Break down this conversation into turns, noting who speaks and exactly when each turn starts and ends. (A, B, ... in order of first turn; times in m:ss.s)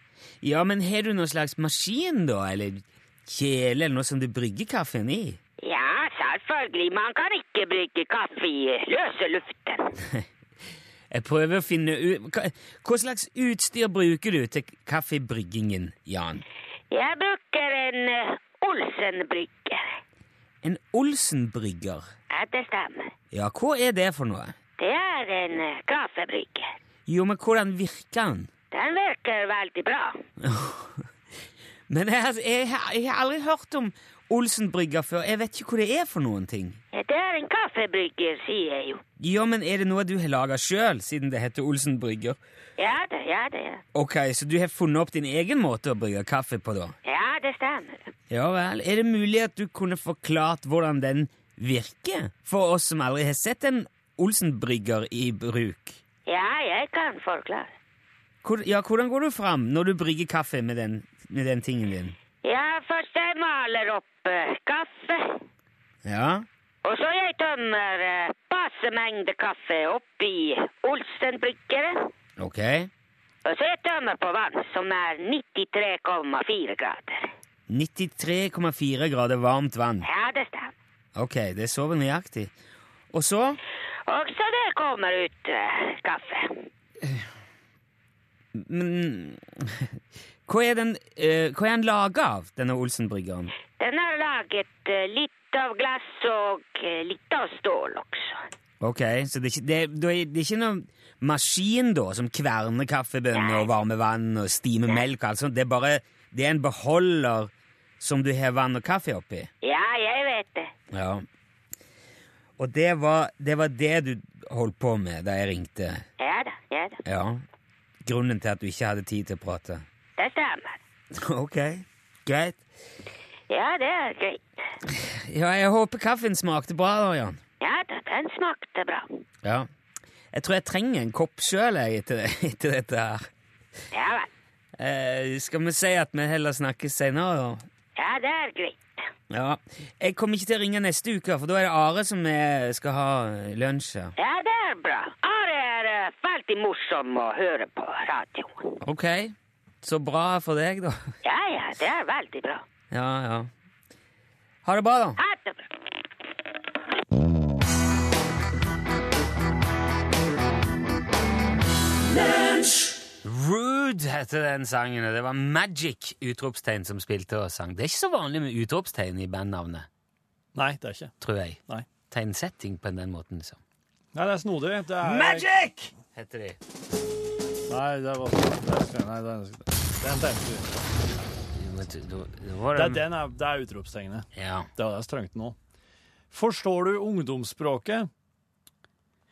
0:00.4-0:05.4 A
0:05.6-0:09.9 B
0:11.1-0:16.4 A
0:16.9-0:20.0 B
0:20.6-0:22.1 A
0:22.3-0:23.1 B
0:23.3-0:24.6 A
0:24.8-0:26.7 B
0:27.1-0:28.5 A
0:28.7-0:30.2 B
0:30.4-0:31.0 A
0:31.9-0:36.8 A
0:36.9-0:39.0 B
0:39.2-0:42.4 A
0:42.8-0:43.8 B
0:43.9-0:46.9 A
0:47.0-0:48.1 B
0:48.3-0:56.0 A
0:56.3-0:57.7 B
0:58.4-1:02.2 A
1:02.4-1:05.4 B
1:06.0-1:06.4 A
1:06.8-1:12.1 B
1:12.4-1:12.9 A
1:13.4-1:17.3 B
1:17.7-1:20.1 A
1:20.0-1:20.7 B
1:21.2-1:22.5 A
1:23.1-1:23.6 A
1:24.1-1:26.6 B
1:27.0-1:27.3 A
1:28.5-1:30.0 A
1:30.5-1:33.5 A
1:33.8-1:38.4 B
1:38.8-1:49.5 A
1:43.3-1:43.7 B
1:49.6-1:50.7 B
1:50.9-1:51.2 A
1:52.6-1:56.0 A
1:56.2-1:57.0 B
1:57.0-1:57.4 A
1:58.0-1:59.8 A
2:00.2-2:00.8 B
2:01.1-2:02.6 A
2:03.5-2:04.4 B
2:04.9-2:07.4 A
2:07.6-2:09.2 B
2:09.4-2:09.7 A
2:10.3-2:13.3 A
2:13.9-2:14.3 B
2:14.8-2:17.6 A
2:18.0-2:18.8 B
2:19.3-2:24.1 A
2:24.2-2:28.7 B
2:28.8-2:31.2 A
2:31.2-2:32.6 B
2:32.9-2:33.5 A
2:34.6-2:35.2 A
2:35.2-2:35.7 B
2:43.2-2:49.9 A
2:50.5-2:51.1 C
2:51.2-2:53.6 A
2:54.1-2:55.5 C
2:55.0-2:56.6 A
2:57.7-3:00.7 C
3:01.5-3:03.0 A
3:02.7-3:05.6 C
3:04.3-3:04.7 A
3:06.3-3:08.1 C